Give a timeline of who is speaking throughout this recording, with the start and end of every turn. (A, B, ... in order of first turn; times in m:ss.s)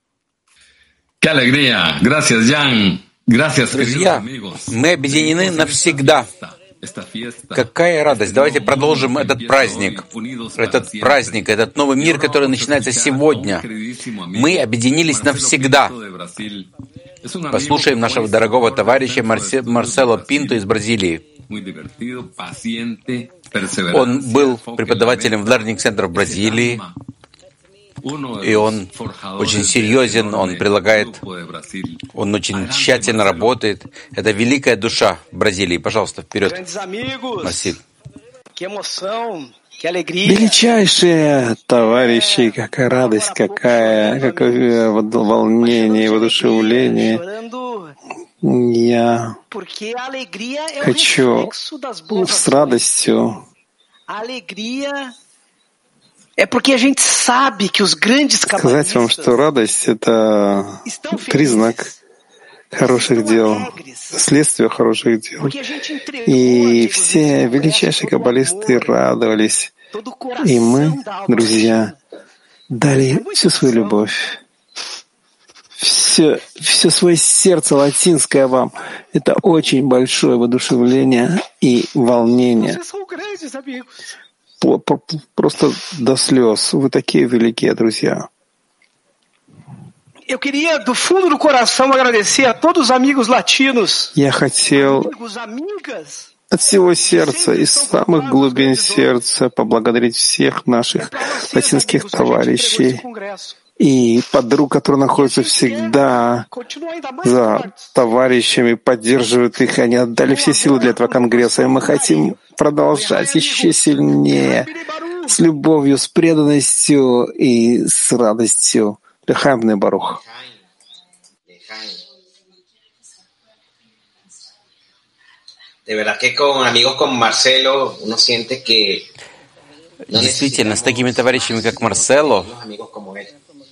0:01.2-0:16.7 A
0:03.7-0:06.3 B
0:07.5-0:10.0 B
0:10.6-0:13.6 B
0:14.3-0:15.9 B
0:17.2-0:20.6 A
0:17.5-0:21.2 B
0:21.4-0:25.6 A
0:23.9-0:26.8 B
0:26.1-0:26.9 A
0:28.0-0:33.6 A
0:28.4-0:31.2 B
0:32.1-0:36.6 B
0:36.4-0:37.7 C
0:37.4-0:37.8 B
0:38.6-0:40.8 C
0:40.2-0:47.2 D
0:41.7-0:44.9 C
0:45.6-0:47.9 C
0:48.4-0:49.4 D
0:49.5-0:52.8 C
0:50.8-0:51.5 D
0:52.1-0:53.4 D
0:54.1-0:55.1 C
0:56.4-0:59.4 C
0:58.5-1:01.9 D
1:00.8-1:01.9 C
1:02.7-1:04.2 C
1:02.7-1:05.6 D
1:05.4-1:09.0 C
1:06.2-1:09.7 D
1:09.9-1:12.0 C
1:10.4-1:11.9 D
1:12.7-1:14.3 D
1:12.8-1:14.0 C
1:15.8-1:22.8 D
1:22.5-1:24.0 C
1:24.6-1:28.3 D
1:30.3-1:34.1 C
1:34.1-1:35.1 D
1:34.7-1:39.1 C
1:36.5-1:43.0 D
1:41.0-1:43.6 C
1:43.8-1:46.5 D
1:45.1-1:48.1 C
1:47.2-1:54.7 D
1:50.2-1:55.4 C
1:55.3-2:00.2 D
2:00.0-2:00.6 E
2:01.5-2:02.0 E
2:05.8-2:09.1 E
2:10.1-2:12.5 B
2:10.1-2:13.3 E